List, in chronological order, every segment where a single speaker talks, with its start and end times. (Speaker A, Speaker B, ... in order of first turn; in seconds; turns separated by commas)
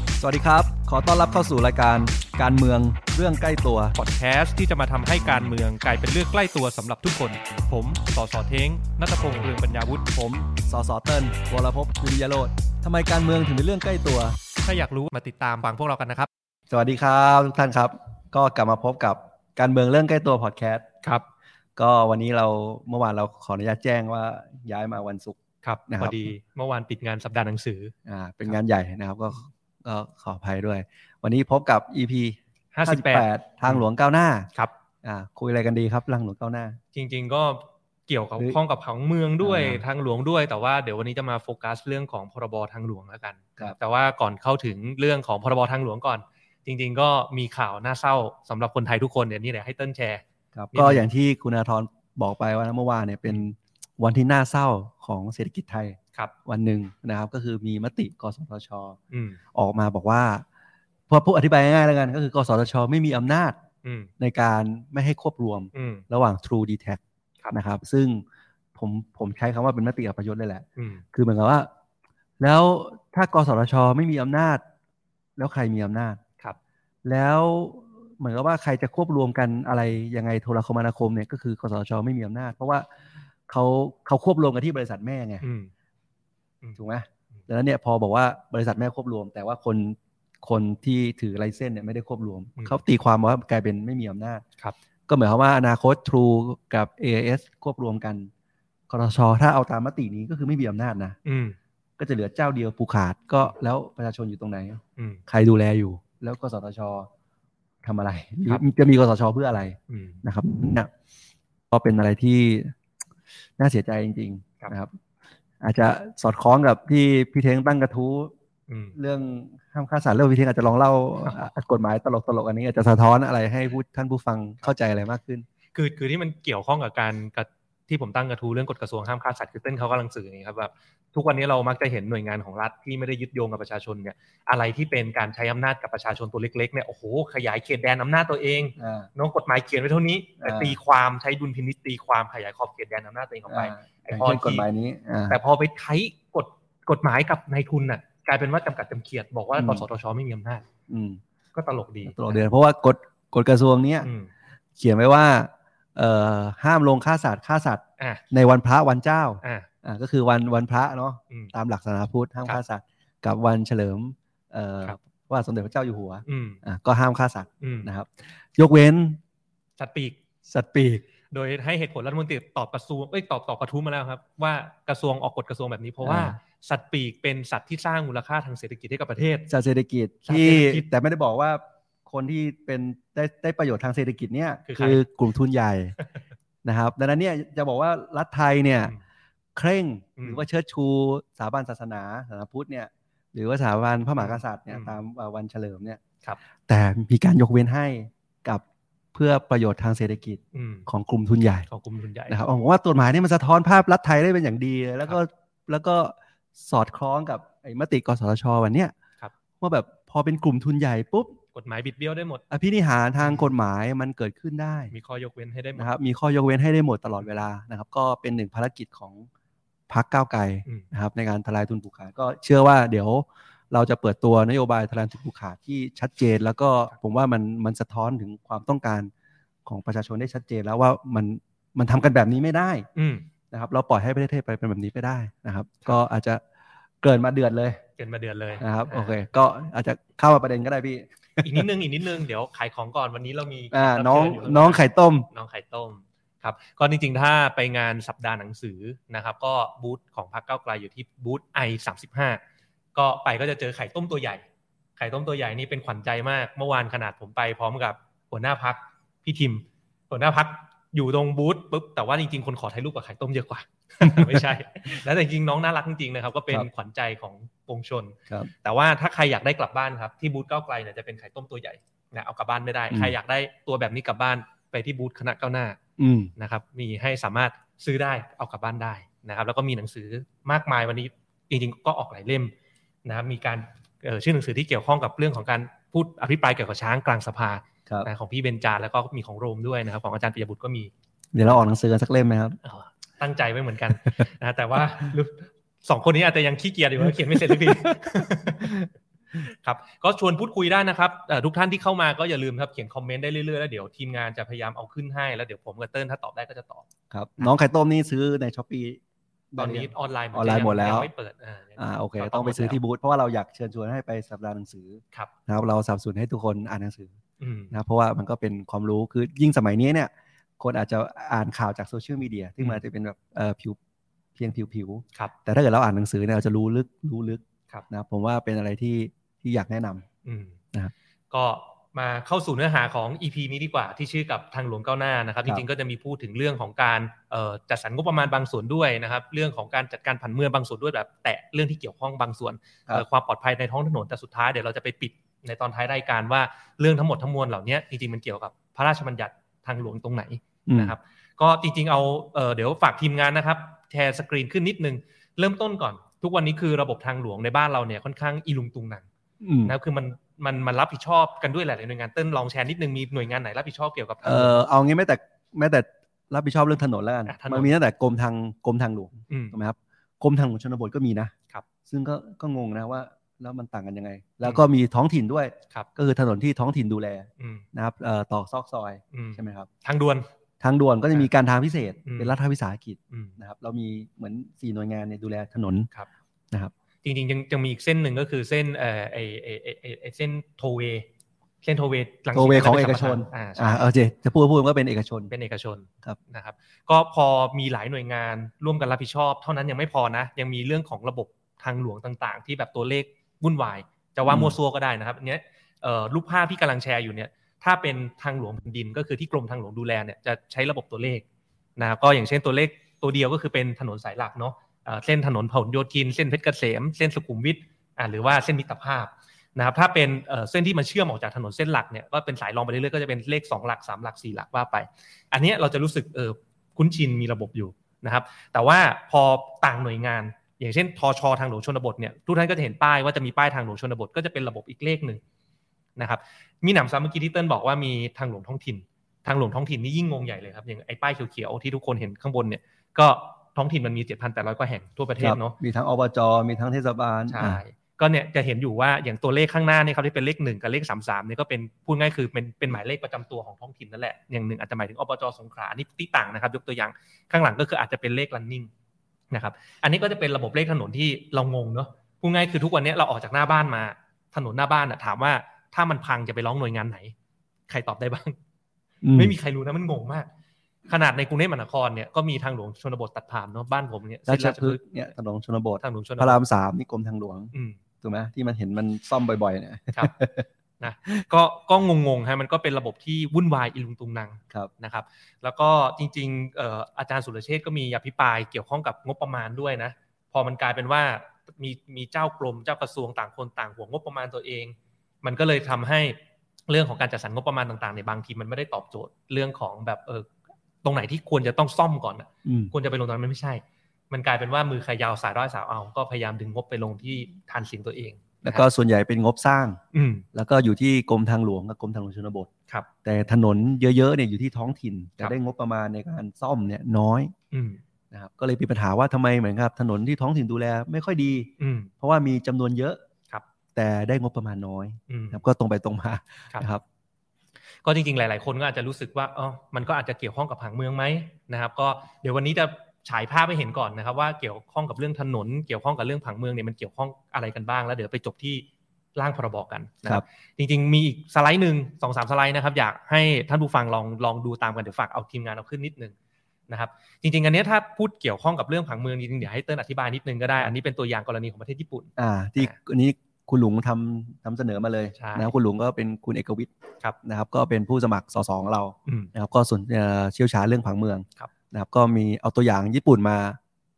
Speaker A: 0.2-4.0, Speaker B: 4.0-10.1, Speaker A: 10.1-14.4, Speaker B: 14.6-16.3, Speaker A: 16.7-20.9, Speaker A: 21.8-26.3, Speaker B: 25.6-27.9, Speaker A: 28.1-34.5, Speaker B: 32.7-33.8, Speaker A: 35.0-36.8, Speaker B: 36.9-50.2, Speaker A: 39.4-39.8, Speaker A: 50.5-59.0, Speaker B: 50.7-51.1, Speaker B: 59.1-59.4, Speaker A: 59.5-60.4, Speaker A: 61.1-63.6, Speaker B: 63.8-64.1, Speaker A: 64.2-68.2, Speaker B: 65.7-66.0, Speaker A: 68.8-71.7, Speaker B: 70.8-71.0, Speaker A: 72.4-74.6, Speaker A: 75.4-76.2, Speaker A: 77.0-82.8, Speaker A: 83.5-85.4, Speaker B: 85.4-85.7, Speaker A: 86.8-94.4, Speaker A: 95.1-98.3, Speaker A: 98.9-101.2, Speaker B: 101.2-101.5, Speaker A: 102.0-107.1, Speaker B: 105.0-105.2, Speaker A: 107.8-110.9, Speaker B: 109.9-110.2, Speaker A: 111.7-112.7, Speaker A: 113.6-115.0, Speaker A: 115.6-118.3, Speaker B: 118.7-118.9, Speaker A: 118.9-125.4, Speaker B: 125.7-144.6, Speaker A: 138.8-139.1, Speaker A: 140.4-140.8, Speaker A: 143.5-145.4, Speaker B: 145.3-150.6, Speaker A: 149.5-149.8, Speaker A: 150.9-151.2, Speaker B: 151.5-152.4, Speaker A: 152.0-154.1, Speaker B: 154.0-154.3, Speaker A: 154.8-169.2, Speaker B: 159.4-159.7, Speaker B: 166.2-166.6, Speaker B: 167.6-167.9, Speaker B: 169.8-170.2, Speaker A: 170.5-171.0, Speaker B: 171.3-179.5, Speaker A: 176.0-176.3, Speaker A: 179.5-185.9, Speaker B: 180.2-180.8, Speaker B: 184.7-185.0, Speaker A: 186.6-188.9, Speaker A: 189.6-196.0, Speaker B: 190.2-190.4, Speaker B: 194.2-195.0, Speaker A: 196.7-198.6, Speaker A: 199.1-201.7, Speaker B: 200.5-200.9, Speaker B: 201.7-202.4, Speaker A: 202.3-208.9, Speaker A: 209.6-211.4, Speaker B: 211.5-212.4, Speaker A: 212.5-214.9, Speaker B: 214.9-215.9, Speaker A: 215.8-219.3, Speaker A: 219.9-229.1, Speaker A: 229.7-232.9, Speaker B: 232.9-233.3, Speaker A: 233.5-236.4, Speaker A: 237.0-237.8, Speaker B: 238.0-239.2, Speaker A: 238.6-241.7, Speaker B: 241.4-252.4, Speaker A: 243.7-245.3, Speaker B: 252.9-254.4, Speaker B: 255.0-275.8, Speaker A: 264.0-264.4, Speaker A: 276.0-276.3, Speaker B: 276.4-282.5, Speaker B: 283.0-290.9, Speaker A: 291.3-292.6, Speaker B: 292.6-298.8, Speaker A: 297.0-298.9, Speaker B: 299.4-306.9, Speaker A: 307.1-309.0, Speaker A: 309.5-311.1, Speaker B: 309.6-312.8, Speaker A: 311.8-317.1, Speaker B: 317.4-317.7, Speaker A: 317.7-323.8, Speaker A: 324.4-330.0, Speaker B: 330.2-330.6, Speaker B: 331.3-359.0, Speaker A: 350.7-350.9, Speaker A: 359.4-359.7, Speaker B: 359.6-364.6, Speaker A: 364.2-371.3, Speaker B: 367.3-367.7, Speaker B: 369.3-369.6, Speaker A: 371.9-379.7, Speaker B: 377.4-377.6, Speaker B: 379.1-380.2, Speaker A: 380.6-385.9, Speaker B: 382.0-382.3, Speaker B: 383.1-383.4, Speaker B: 387.0-391.1, Speaker B: 391.6-393.9, Speaker A: 392.3-395.3, Speaker B: 395.3-411.2, Speaker A: 404.2-404.5, Speaker B: 411.8-435.2, Speaker B: 436.0-445.6, Speaker A: 445.2-447.6, Speaker B: 447.3-458.7, Speaker B: 459.3-467.1, Speaker B: 467.7-468.4, Speaker A: 469.0-469.3, Speaker B: 469.1-470.3, Speaker B: 470.9-474.8, Speaker A: 474.3-480.4, Speaker B: 475.8-476.4, Speaker B: 477.5-477.8, Speaker B: 480.8-500.3, Speaker B: 500.8-508.6, Speaker A: 502.4-502.7, Speaker A: 508.4-509.8, Speaker B: 509.9-510.2, Speaker A: 510.3-512.5, Speaker A: 513.0-517.3, Speaker B: 517.5-517.8, Speaker A: 518.1-523.0, Speaker B: 521.6-521.9, Speaker A: 523.7-526.8, Speaker B: 525.1-525.4, Speaker B: 527.8-546.1, Speaker B: 546.7-552.7, Speaker A: 552.2-556.7, Speaker B: 555.1-555.5, Speaker A: 557.2-563.6, Speaker B: 559.0-559.3